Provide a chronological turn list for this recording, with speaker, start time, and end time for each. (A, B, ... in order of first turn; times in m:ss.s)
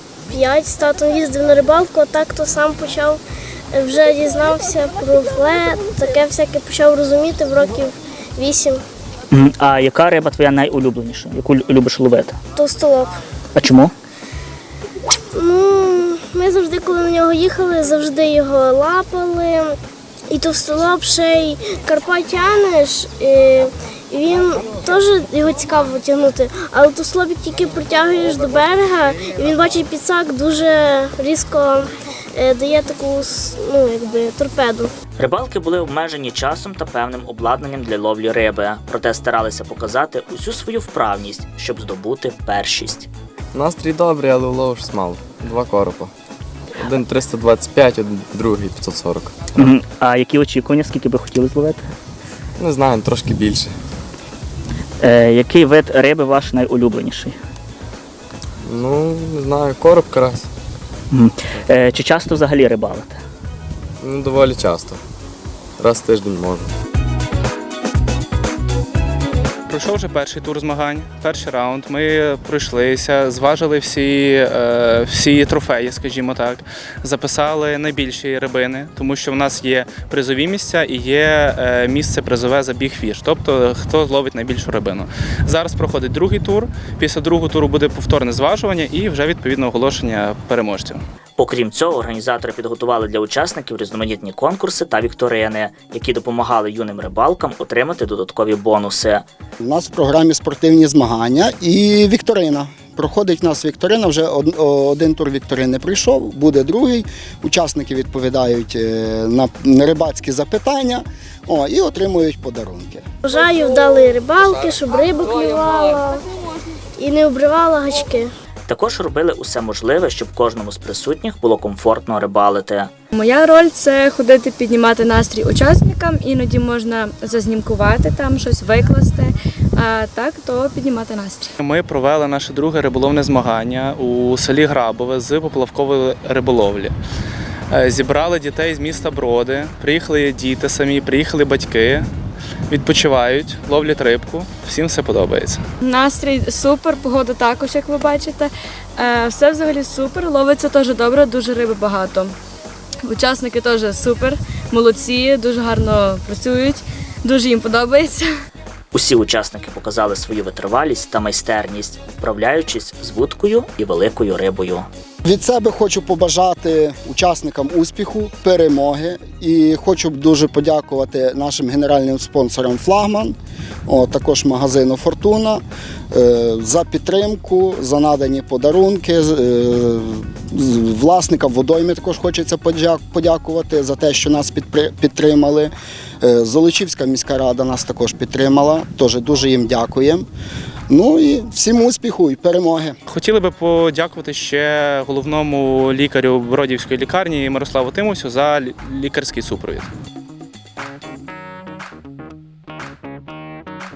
0:00.3-0:03.2 A
0:03.7-0:08.8 A
0:09.3-0:12.4 B
0:12.6-0:13.2 A
0:13.6-0:13.9 B
0:15.3-0:19.7 A
0:20.3-0:34.9 A
0:35.2-0:43.1 B
0:43.5-0:46.1 C
0:46.8-0:49.4 C
0:49.6-0:51.9 B
0:52.6-0:53.8 C
0:55.0-0:57.4 B
0:58.6-1:00.5 C
1:01.1-1:03.2 B
1:04.0-1:05.0 C
1:05.8-1:06.7 C
1:09.7-1:31.0 D
1:31.4-1:39.2 B
1:39.6-1:53.0 E
1:53.2-1:56.3 A
1:57.0-1:58.3 A
1:58.7-2:02.9 B
2:03.1-2:11.5 F
2:11.6-2:17.0 D
2:17.7-2:22.1 D
2:22.7-2:25.6 D
2:25.8-2:32.3 F
2:33.1-2:38.3 F
2:38.9-2:44.9 B
2:45.2-2:53.4 E
2:53.9-3:10.3 E
3:10.9-3:13.0 E
3:13.1-3:19.9 D